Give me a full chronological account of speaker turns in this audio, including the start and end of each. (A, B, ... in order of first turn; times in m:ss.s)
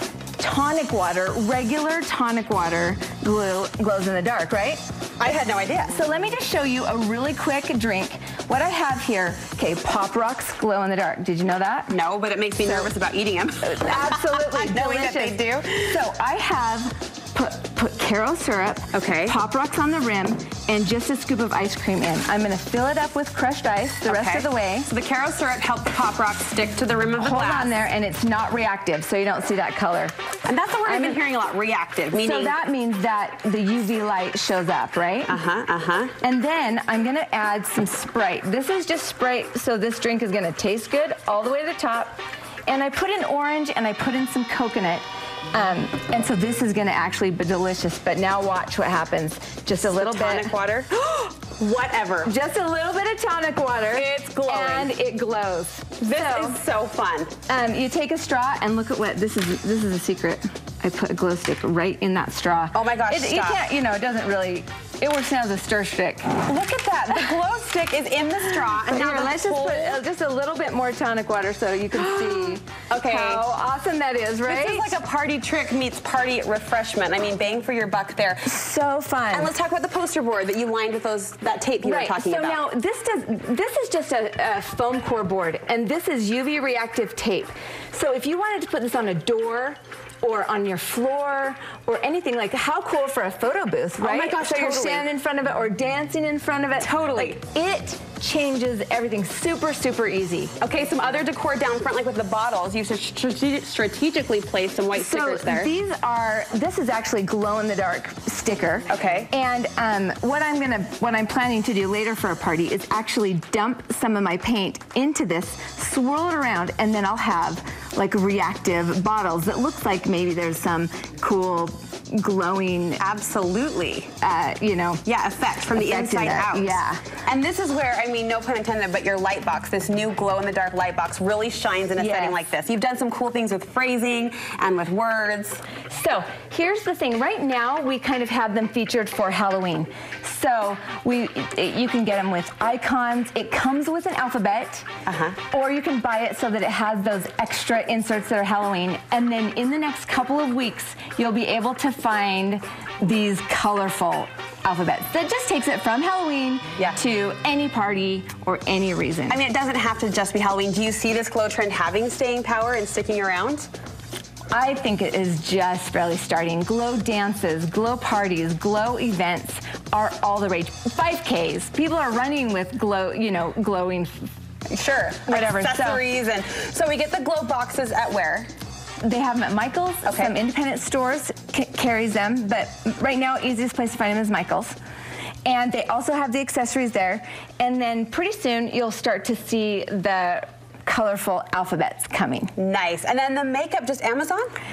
0:00.4-0:04.8 A
0:05.2-0:06.0 B
0:05.9-0:11.9 A
0:11.9-0:16.0 B
0:12.6-0:12.9 A
0:13.7-0:24.9 A
0:18.9-0:19.4 B
0:24.0-0:27.8 B
0:27.2-0:30.1 A
0:30.5-0:32.6 B
0:30.9-0:31.2 A
0:32.1-0:35.4 A
0:35.3-0:36.2 B
0:36.2-0:50.6 A
0:49.8-0:52.3 B
0:52.2-0:56.6 A
0:53.9-0:54.9 B
0:56.0-0:57.3 B
0:57.5-1:06.4 A
1:02.7-1:03.6 B
1:06.4-1:10.0 B
1:08.8-1:14.9 A
1:12.1-1:13.4 B
1:14.5-1:18.6 B
1:18.5-1:19.5 A
1:19.3-1:22.6 B
1:21.8-1:40.5 A
1:34.0-1:35.1 B
1:36.8-1:37.4 B
1:40.6-1:45.7 B
1:45.0-2:03.0 A
1:48.9-1:49.3 B
2:03.0-2:04.1 B
2:04.2-2:05.0 A
2:05.0-2:15.6 B
2:05.7-2:07.0 A
2:12.0-2:12.4 A
2:15.9-2:24.9 A
2:25.1-2:25.4 B
2:25.5-2:39.4 A
2:39.3-2:43.7 B
2:44.5-2:54.3 A
2:54.7-2:58.5 B
2:55.3-2:56.0 A
2:59.0-3:04.8 A
3:00.1-3:00.3 B
3:05.4-3:12.5 A
3:12.6-3:14.5 B